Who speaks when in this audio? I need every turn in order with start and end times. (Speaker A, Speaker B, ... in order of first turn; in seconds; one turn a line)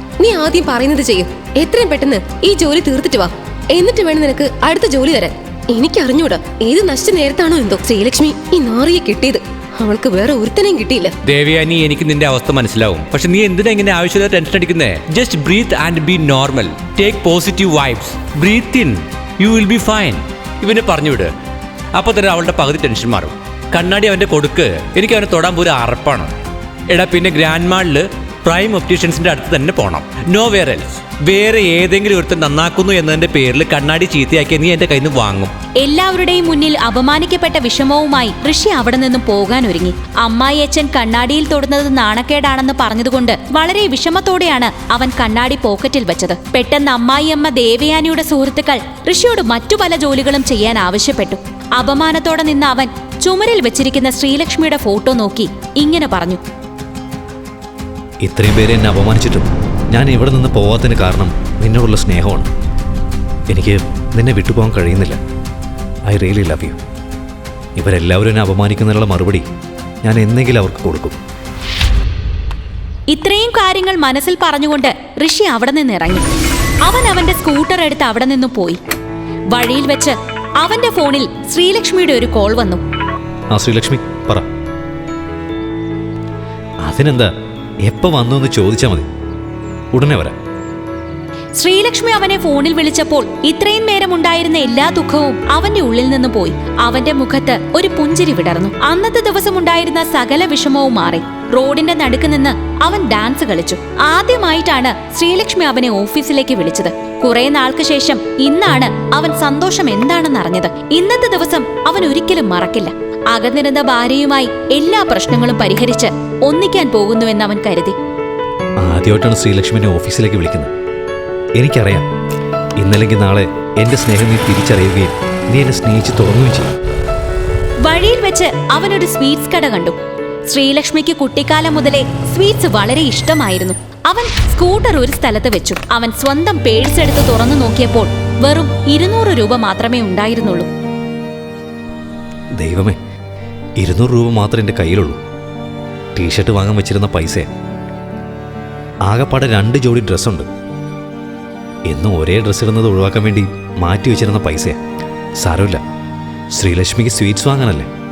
Speaker A: 0.2-11.1
Speaker B: 11.2-21.3
Speaker B: 21.9-26.3
Speaker B: 26.9-35.5
Speaker C: 35.8-56.4
Speaker D: 58.2-62.5
Speaker D: 63.5-65.2
Speaker D: 66.1-66.8
Speaker D: 67.8-69.5
Speaker D: 70.0-71.2
Speaker C: 73.1-76.3
Speaker C: 76.8-78.8
Speaker C: 79.5-82.8
Speaker D: 83.5-84.5
Speaker D: 86.8-87.3
Speaker D: 87.8-89.1
Speaker D: 89.9-90.4
Speaker C: 91.6-118.0
Speaker D: 118.8-120.7
Speaker D: 121.5-122.1
Speaker D: 122.8-126.7
Speaker C: 127.8-130.0
Speaker C: 130.5-140.7
Speaker D: 142.6-143.0
Speaker D: 143.8-145.2
Speaker D: 146.2-147.5
Speaker D: 149.1-150.5
Speaker D: 151.9-154.8
Speaker D: 155.4-155.8
Speaker D: 156.5-157.9